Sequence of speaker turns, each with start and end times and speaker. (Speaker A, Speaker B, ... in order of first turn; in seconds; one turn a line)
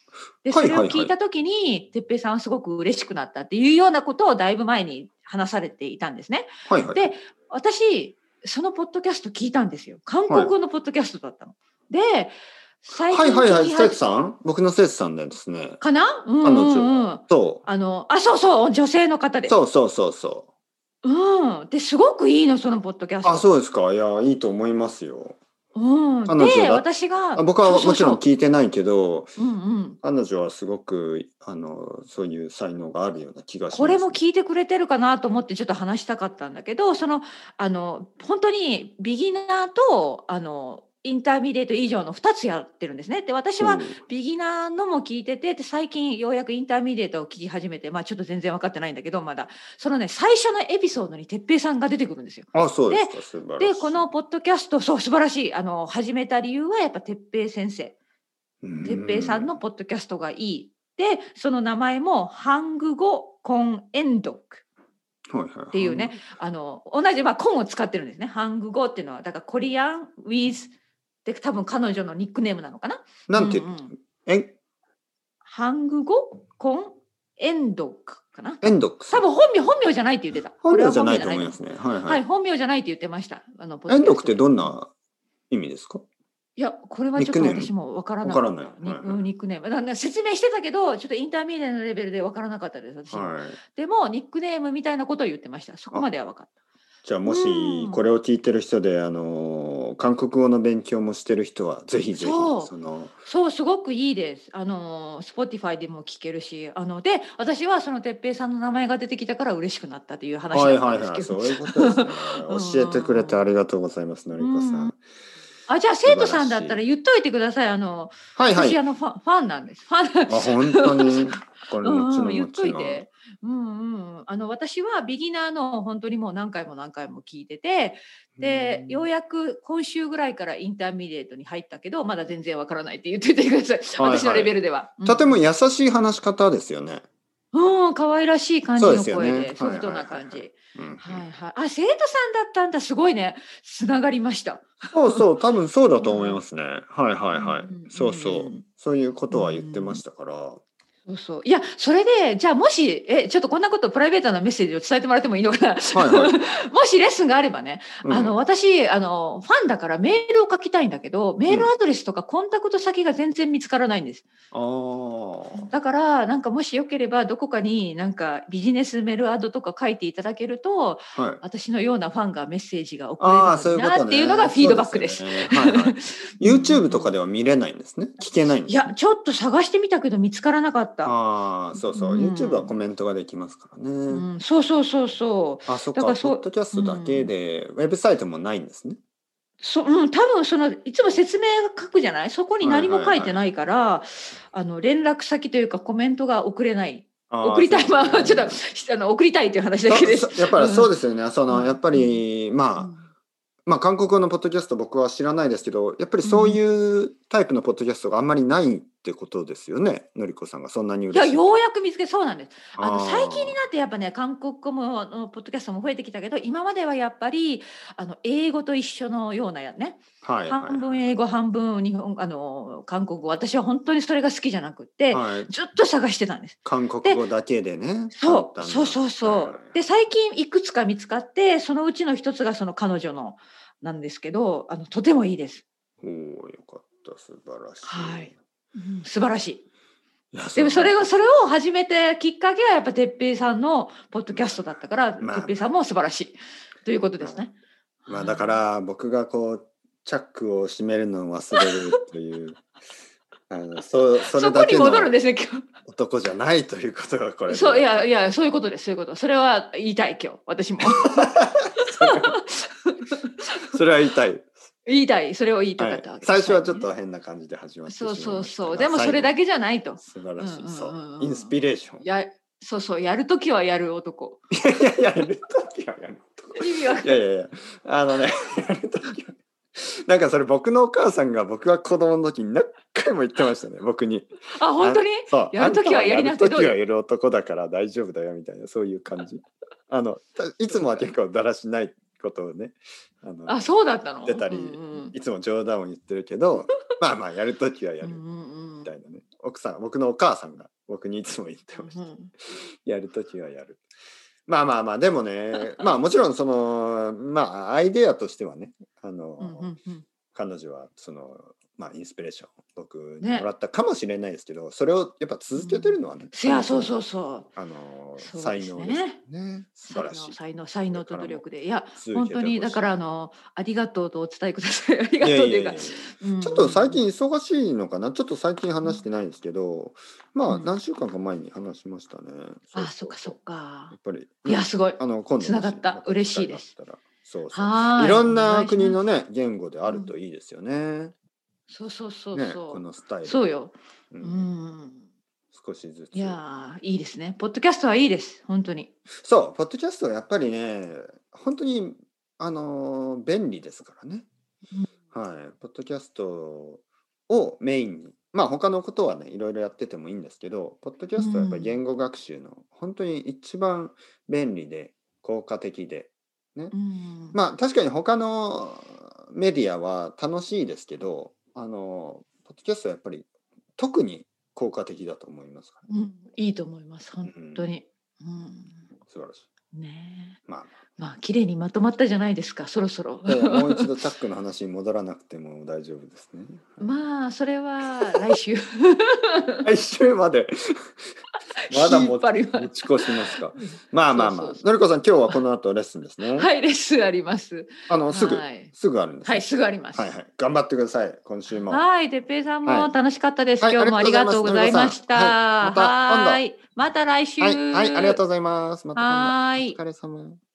Speaker A: 0.4-14.0
Speaker B: 0.5-1.1
Speaker B: 6.7-7.1
Speaker B: 10.3-10.5
Speaker B: 13.1-15.8
Speaker A: 15.8-19.6
Speaker B: 16.4-17.6
Speaker B: 19.5-20.5
Speaker A: 21.0-23.5
Speaker B: 23.2-25.4
Speaker A: 25.7-28.2
Speaker B: 26.3-29.3
Speaker A: 29.4-30.0
Speaker B: 30.0-34.2
Speaker A: 33.7-57.9
Speaker B: 43.6-44.0
Speaker B: 52.5-54.0
Speaker B: 58.6-59.5
Speaker A: 58.8-64.6
Speaker B: 65.3-66.2
Speaker A: 65.7-70.7
Speaker A: 71.2-73.9
Speaker B: 73.3-74.5
Speaker A: 75.4-84.8
Speaker B: 78.6-79.3
Speaker B: 80.6-82.2
Speaker B: 83.9-84.9
Speaker B: 85.5-86.0
Speaker A: 86.6-96.5
Speaker B: 87.2-89.2
Speaker B: 93.1-93.6
Speaker B: 97.0-103.2
Speaker A: 97.2-98.0
Speaker A: 102.2-102.7
Speaker A: 103.2-113.5
Speaker B: 110.5-115.0
Speaker A: 114.4-114.9
Speaker A: 115.7-121.2
Speaker B: 116.0-116.8
Speaker B: 118.3-118.8
Speaker B: 120.3-123.0
Speaker A: 121.8-135.4
Speaker B: 128.4-129.1
Speaker B: 134.0-134.5
Speaker B: 135.0-137.0
Speaker A: 137.5-145.2
Speaker B: 138.8-141.3
Speaker B: 144.9-150.6
Speaker A: 146.0-146.4
Speaker A: 147.3-148.6
Speaker A: 149.3-150.0
Speaker A: 151.1-164.2
Speaker B: 155.9-156.5
Speaker B: 158.0-158.3
Speaker B: 164.5-165.7
Speaker A: 165.6-177.1
Speaker B: 171.1-171.4
Speaker B: 173.2-178.9
Speaker A: 178.7-181.1
Speaker B: 181.0-184.3
Speaker A: 181.8-182.7
Speaker A: 184.1-187.3
Speaker B: 185.7-189.0
Speaker A: 189.6-200.9
Speaker B: 192.6-193.4
Speaker B: 197.3-198.6
Speaker B: 199.9-202.9
Speaker A: 201.5-202.2
Speaker A: 202.8-203.1
Speaker B: 203.7-211.4
Speaker A: 206.2-206.6
Speaker A: 211.1-227.2
Speaker B: 212.8-213.6
Speaker B: 220.2-221.0
Speaker B: 225.1-225.5
Speaker B: 226.6-229.8
Speaker A: 228.1-235.6
Speaker B: 236.0-238.3
Speaker A: 237.8-239.6
Speaker B: 240.3-241.1
Speaker A: 240.5-247.5
Speaker B: 244.3-244.6
Speaker B: 245.2-245.6
Speaker A: 248.1-248.6
Speaker B: 248.1-252.7
Speaker B: 253.5-255.1
Speaker A: 254.2-255.7
Speaker B: 255.9-258.1
Speaker A: 257.5-263.3
Speaker B: 261.0-262.4
Speaker B: 263.7-264.5
Speaker A: 264.9-266.9
Speaker B: 265.8-269.3
Speaker A: 267.9-274.4
Speaker B: 270.0-272.0
Speaker B: 274.5-293.6
Speaker A: 276.6-277.2
Speaker A: 284.5-286.8
Speaker A: 293.5-295.1
Speaker B: 294.2-298.2
Speaker A: 298.0-298.9
Speaker B: 298.8-302.0
Speaker A: 301.7-302.3
Speaker B: 302.8-303.8
Speaker B: 304.5-309.7
Speaker A: 309.4-310.1
Speaker B: 310.3-317.0
Speaker A: 313.2-313.5
Speaker A: 315.6-317.5
Speaker B: 317.6-320.4
Speaker A: 318.2-319.2
Speaker A: 319.9-327.0
Speaker B: 320.9-321.4
Speaker B: 322.0-322.9
Speaker B: 325.2-333.4
Speaker A: 332.7-333.9
Speaker B: 333.9-341.1
Speaker A: 334.4-336.7
Speaker A: 337.5-339.0
Speaker A: 341.7-345.0
Speaker B: 342.3-343.4
Speaker B: 344.1-344.5
Speaker B: 345.5-346.4
Speaker A: 346.1-348.9
Speaker B: 349.2-354.3
Speaker B: 355.1-366.7
Speaker A: 361.2-361.8
Speaker A: 366.7-367.4
Speaker B: 367.3-375.9
Speaker A: 375.9-378.9
Speaker B: 377.2-377.7
Speaker B: 379.1-379.4
Speaker A: 379.7-380.4
Speaker B: 380.5-380.7
Speaker A: 381.0-383.9
Speaker B: 383.2-386.9
Speaker A: 386.8-389.6
Speaker B: 389.6-391.0
Speaker A: 391.7-394.6
Speaker B: 391.7-396.5
Speaker A: 396.4-398.7
Speaker B: 397.9-401.8
Speaker A: 399.2-400.1
Speaker A: 401.5-408.2
Speaker B: 403.6-406.4
Speaker B: 407.4-410.4
Speaker A: 408.9-409.8